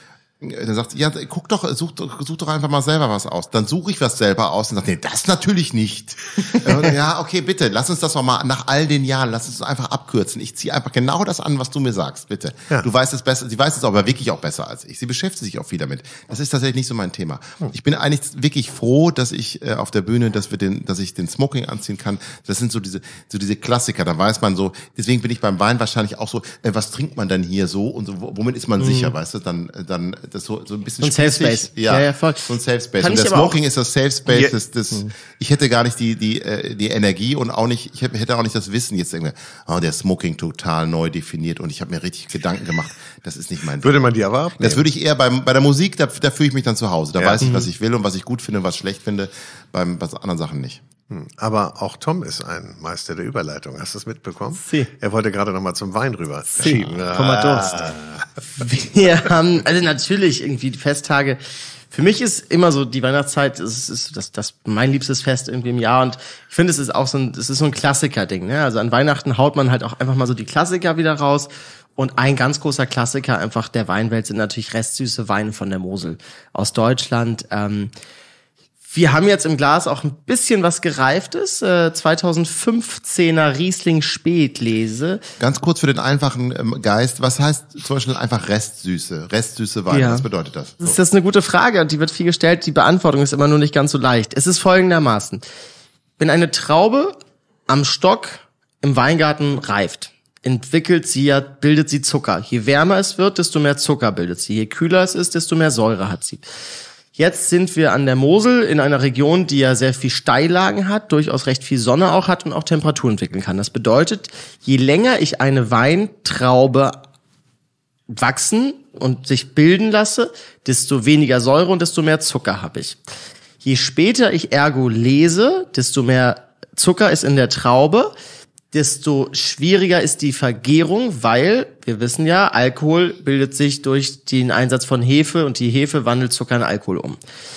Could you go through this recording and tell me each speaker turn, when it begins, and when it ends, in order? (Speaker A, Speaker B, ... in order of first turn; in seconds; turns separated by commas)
Speaker A: 0.4-44.0, Speaker B: 28.8-29.1, Speaker B: 31.0-33.6, Speaker C: 43.8-44.8, Speaker A: 44.6-50.8, Speaker C: 47.2-47.6, Speaker C: 51.1-58.2, Speaker B: 54.6-54.9, Speaker B: 56.5-57.8, Speaker A: 56.6-57.9, Speaker B: 58.6-61.4, Speaker B: 61.9-77.9, Speaker B: 78.9-85.2, Speaker A: 85.4-91.0, Speaker B: 89.9-90.3, Speaker B: 90.8-95.4, Speaker B: 96.2-97.2, Speaker B: 97.7-106.5, Speaker B: 107.2-117.0, Speaker B: 118.1-123.0, Speaker B: 123.6-128.1, Speaker B: 128.7-137.2